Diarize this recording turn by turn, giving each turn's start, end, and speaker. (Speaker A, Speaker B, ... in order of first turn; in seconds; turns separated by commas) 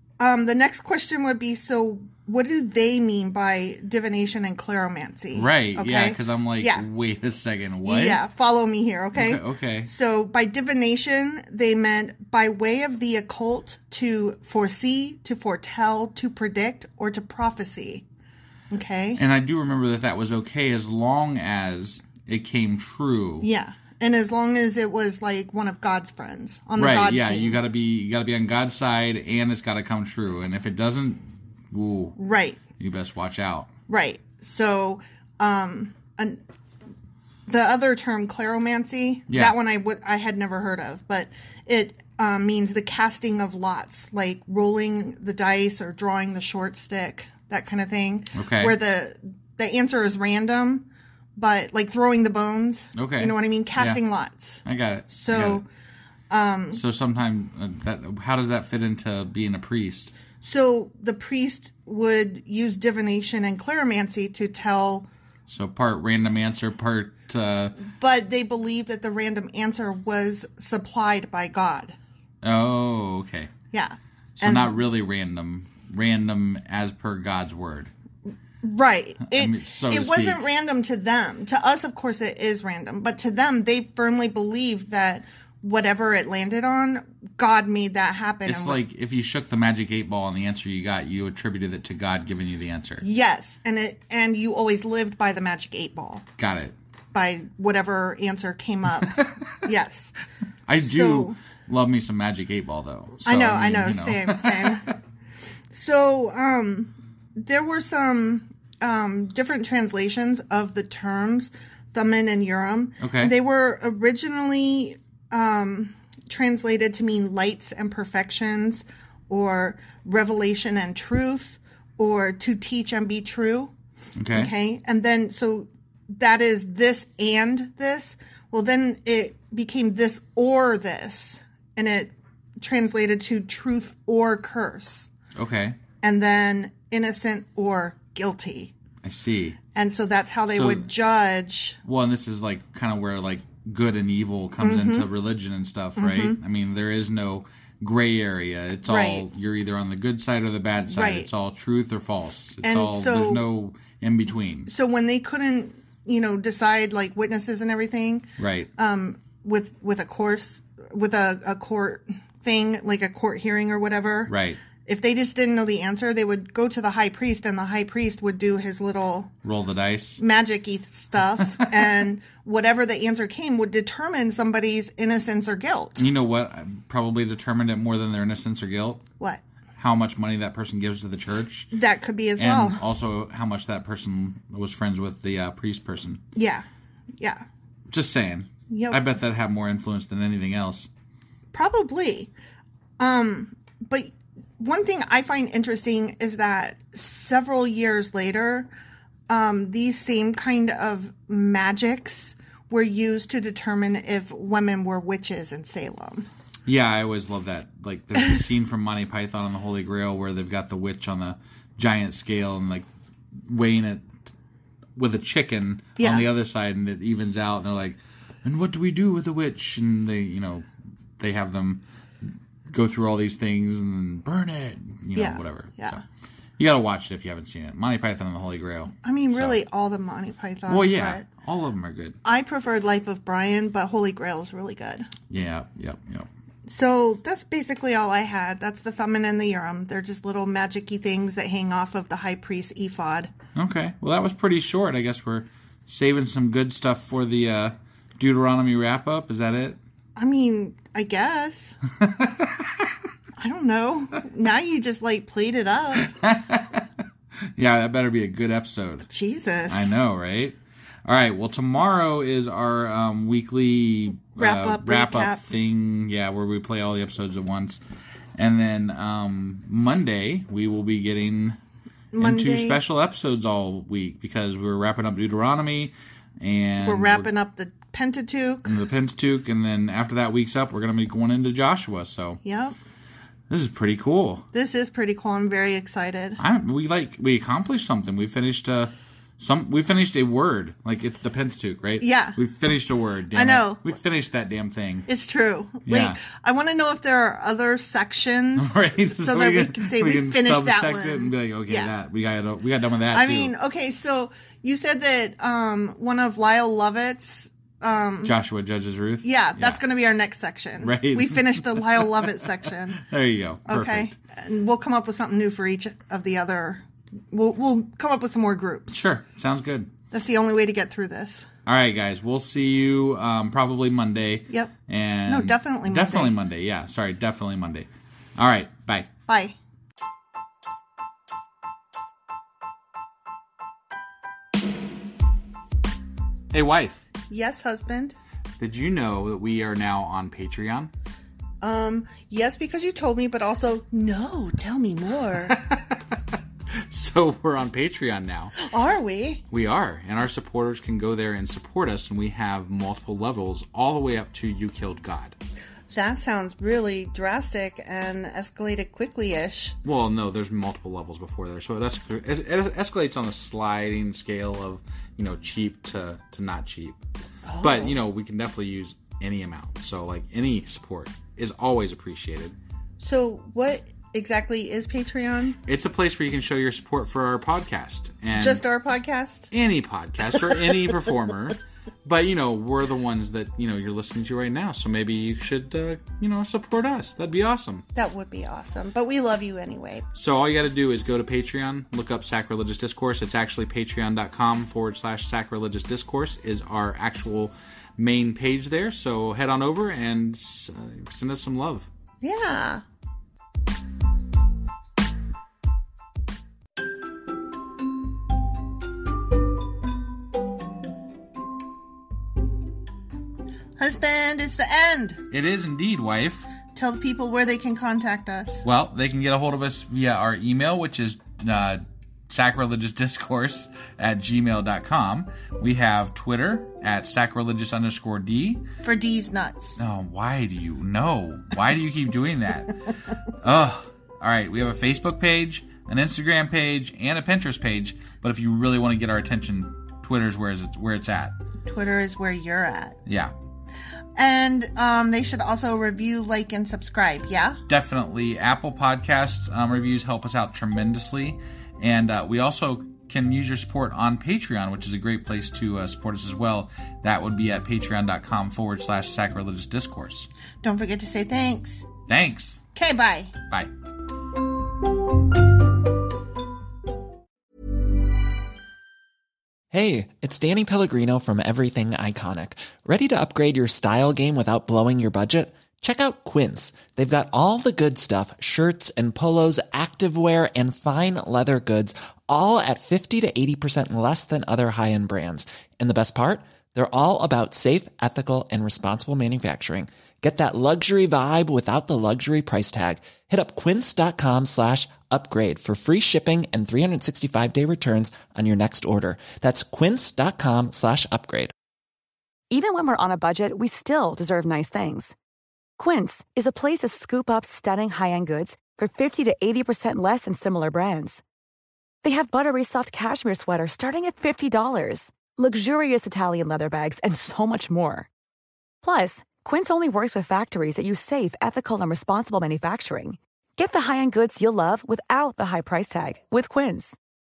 Speaker A: 0.2-6.8, Speaker B: 5.3-8.3, Speaker A: 7.8-18.1, Speaker B: 9.1-9.9, Speaker A: 18.7-19.2, Speaker B: 19.1-23.5, Speaker A: 23.4-27.6, Speaker B: 26.8-32.2, Speaker A: 32.2-32.6, Speaker B: 32.8-33.7, Speaker A: 33.9-36.4, Speaker A: 37.5-55.7, Speaker B: 39.3-39.5, Speaker B: 48.4-48.8, Speaker B: 53.0-54.0, Speaker B: 54.6-55.6, Speaker A: 56.3-56.8, Speaker B: 56.7-60.2, Speaker A: 60.4-65.1, Speaker B: 65.5-67.8, Speaker A: 67.8-72.0, Speaker B: 72.4-73.5, Speaker A: 73.7-74.8, Speaker B: 74.4-77.9, Speaker A: 78.6-88.8, Speaker B: 79.2-80.5, Speaker B: 88.5-93.0, Speaker A: 93.0-96.3, Speaker B: 96.4-96.8, Speaker A: 97.1-100.2, Speaker B: 100.7-104.8, Speaker A: 100.8-101.4, Speaker A: 103.2-104.9, Speaker A: 105.7-123.7, Speaker B: 113.0-113.3, Speaker B: 124.2-124.5, Speaker A: 124.3-135.1, Speaker B: 135.4-135.8, Speaker A: 136.0-138.7, Speaker B: 139.0-139.6, Speaker A: 139.8-141.8, Speaker B: 140.5-140.9, Speaker B: 141.8-154.7, Speaker A: 144.6-145.1, Speaker A: 146.0-146.4, Speaker A: 148.9-149.3, Speaker A: 150.9-151.3, Speaker A: 152.6-153.5, Speaker A: 154.7-164.3, Speaker B: 158.4-158.7, Speaker B: 164.3-164.6, Speaker A: 164.9-169.3, Speaker B: 169.4-170.2, Speaker A: 170.2-176.1, Speaker B: 176.0-179.0, Speaker B: 179.8-181.7, Speaker A: 181.7-182.8, Speaker B: 182.4-186.2, Speaker A: 186.3-186.7, Speaker B: 187.9-190.9, Speaker A: 188.7-189.0, Speaker A: 191.5-192.3, Speaker A: 193.0-198.7, Speaker A: 199.3-206.3, Speaker B: 206.7-212.9, Speaker B: 213.5-214.1, Speaker B: 215.0-220.7, Speaker A: 216.0-216.3, Speaker B: 221.2-221.8, Speaker B: 222.7-226.0, Speaker A: 225.2-226.0, Speaker B: 226.6-229.6, Speaker A: 229.0-231.3, Speaker B: 230.7-232.2, Speaker A: 232.2-235.1, Speaker B: 235.3-236.3, Speaker A: 236.7-243.3, Speaker B: 243.6-249.8, Speaker A: 250.2-251.8, Speaker B: 252.2-252.5, Speaker A: 253.4-256.1, Speaker B: 256.0-256.8, Speaker B: 257.6-259.1, Speaker A: 259.1-259.9, Speaker B: 259.7-267.8, Speaker A: 264.4-265.4, Speaker B: 268.4-271.6, Speaker A: 272.1-272.8, Speaker B: 272.2-277.3, Speaker A: 276.8-278.8, Speaker B: 278.7-282.4, Speaker A: 282.4-282.8, Speaker B: 283.5-284.4, Speaker A: 284.5-286.4, Speaker B: 286.4-295.1, Speaker A: 292.0-292.4, Speaker A: 293.3-293.8, Speaker A: 295.1-301.9, Speaker B: 295.9-296.2, Speaker B: 298.6-303.6, Speaker A: 303.1-308.4, Speaker B: 308.2-309.8, Speaker A: 309.2-313.0, Speaker B: 310.8-312.3, Speaker B: 313.1-314.2, Speaker A: 313.7-319.0, Speaker B: 318.9-319.9, Speaker A: 320.1-321.5, Speaker B: 321.7-329.1, Speaker A: 324.5-324.7, Speaker A: 325.3-326.4, Speaker A: 329.3-329.6, Speaker B: 336.5-337.0, Speaker A: 337.3-338.2, Speaker B: 338.6-340.9, Speaker A: 341.6-345.6, Speaker B: 345.5-346.0, Speaker B: 346.9-348.6, Speaker A: 348.6-349.4, Speaker B: 349.5-355.4, Speaker A: 355.9-359.8, Speaker B: 359.8-367.0, Speaker A: 367.4-368.0, Speaker B: 367.6-372.6, Speaker A: 373.0-375.6, Speaker B: 375.7-378.6, Speaker A: 378.3-379.5, Speaker B: 379.5-387.9, Speaker A: 387.9-390.1, Speaker B: 390.1-401.9, Speaker A: 402.2-402.8, Speaker A: 413.8-415.2, Speaker B: 415.3-416.5, Speaker A: 416.7-418.6, Speaker B: 418.6-428.6, Speaker A: 428.8-429.8, Speaker B: 429.8-432.7, Speaker B: 433.4-441.4, Speaker A: 441.6-443.0, Speaker B: 443.1-443.3, Speaker A: 444.2-447.6, Speaker B: 447.7-460.3, Speaker A: 460.6-461.9, Speaker B: 462.1-462.6, Speaker A: 462.8-463.3, Speaker C: 469.7-501.5, Speaker D: 502.5-505.1, Speaker D: 505.8-511.2, Speaker D: 512.0-518.1, Speaker D: 518.8-527.0